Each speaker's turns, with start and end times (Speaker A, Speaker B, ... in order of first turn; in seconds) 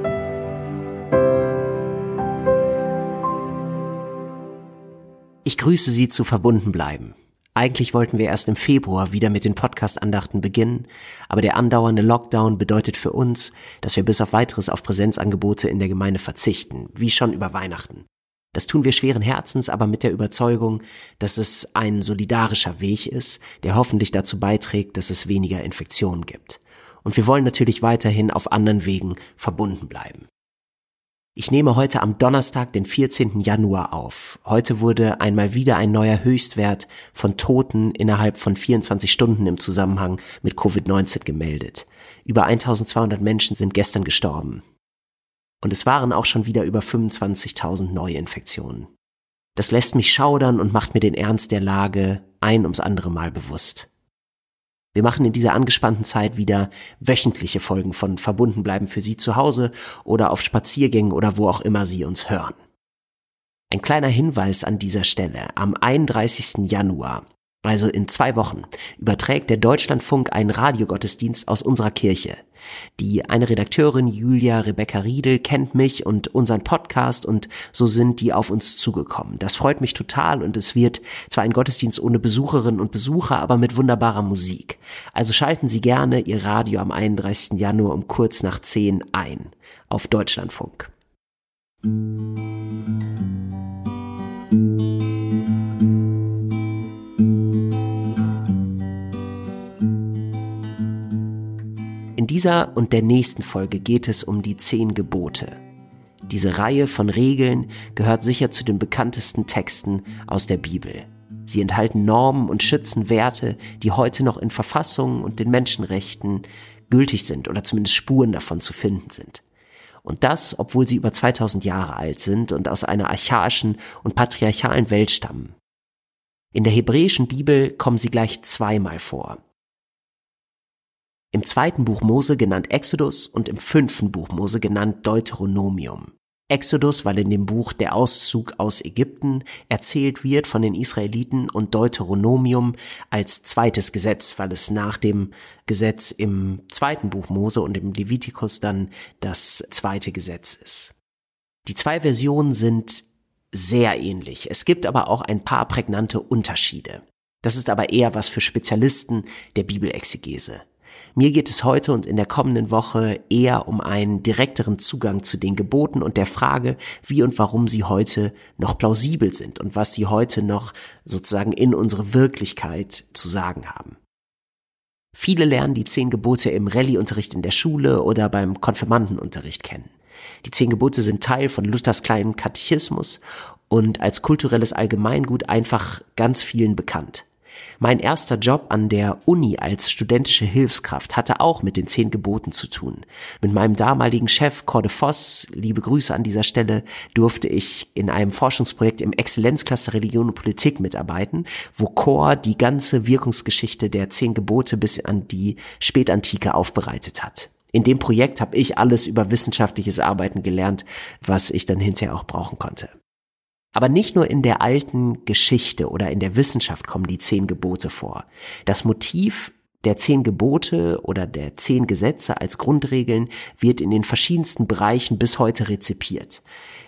Speaker A: 5.4-30.3, 31.4-44.6, 45.6-48.9, 49.5-53.9, 54.9-62.5, 63.7-72.4, 73.0-90.9, 102.2-105.6, 106.3-119.4, 120.0-125.5, 126.5-129.4, 131.3-150.9, 151.7-160.6, 161.2-174.0, 175.1-179.9, 180.4-187.2, 187.8-212.9, 213.8-226.4